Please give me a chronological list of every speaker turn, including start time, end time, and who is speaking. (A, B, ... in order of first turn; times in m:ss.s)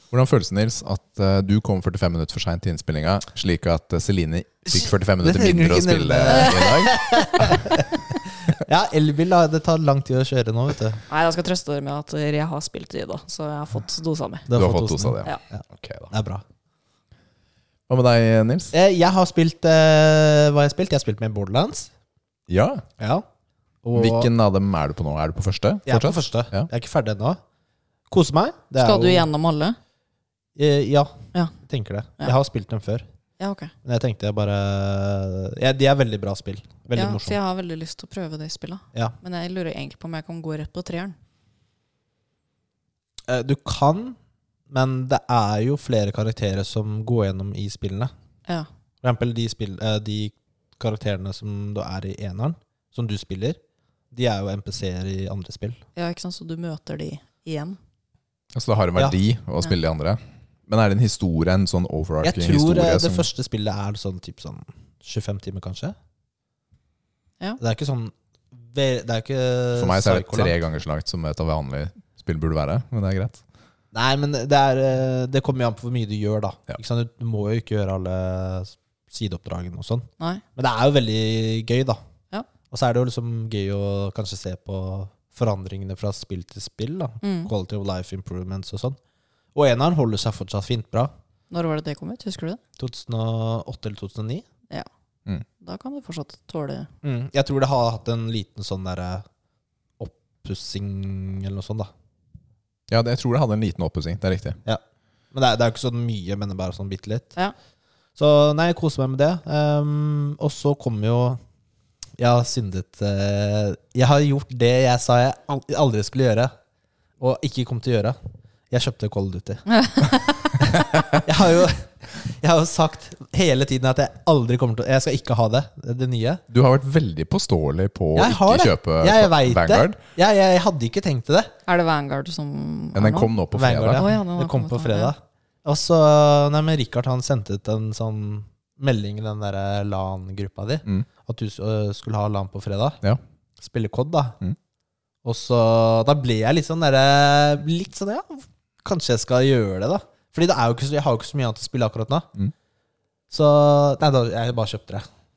0:00.1-0:07.9 A
0:04.7-0:11.0 B
0:06.3-0:07.0 C
0:11.1-0:14.5 C
0:14.5-0:16.4 B
0:14.5-0:16.1 A
0:17.9-0:18.8 A
0:18.7-0:21.9 B
0:22.5-0:22.9 A
0:23.0-0:23.2 B
0:23.8-0:24.3 B
0:23.9-0:26.7 A
0:25.9-0:27.4 B
0:28.1-0:29.3 B
0:28.8-0:29.8 C
0:30.6-0:33.1 B
0:33.4-0:33.7 C
0:33.8-0:37.4 B
0:37.0-0:41.2 C
0:43.3-0:44.2 B
0:44.7-0:48.1 B
0:49.0-0:53.6 B
0:54.1-0:55.8 B
0:56.0-0:57.8 C
0:58.5-1:03.3 A
1:02.2-1:06.0 B
1:07.6-1:10.5 B
1:09.8-1:13.4 A
1:13.9-1:22.0 B
1:22.7-1:29.0 B
1:27.2-1:27.5 C
1:29.6-1:31.1 B
1:31.5-1:32.6 C
1:32.8-1:34.4 B
1:35.6-1:36.9 C
1:37.0-1:39.2 B
1:40.0-1:41.9 B
1:42.9-1:44.6 A
1:45.3-1:47.4 B
1:48.2-1:51.4 B
1:52.2-1:56.5 B
1:57.2-1:58.2 B
1:58.7-1:59.7 B
1:59.7-2:00.6 C
2:00.6-2:06.4 B
2:00.9-2:01.2 A
2:06.5-2:10.0 A
2:08.2-2:11.5 B
2:11.7-2:13.4 C
2:12.9-2:14.1 A
2:13.5-2:23.0 B
2:13.9-2:15.1 C
2:23.6-2:24.4 B
2:25.2-2:32.3 B
2:33.3-2:35.1 B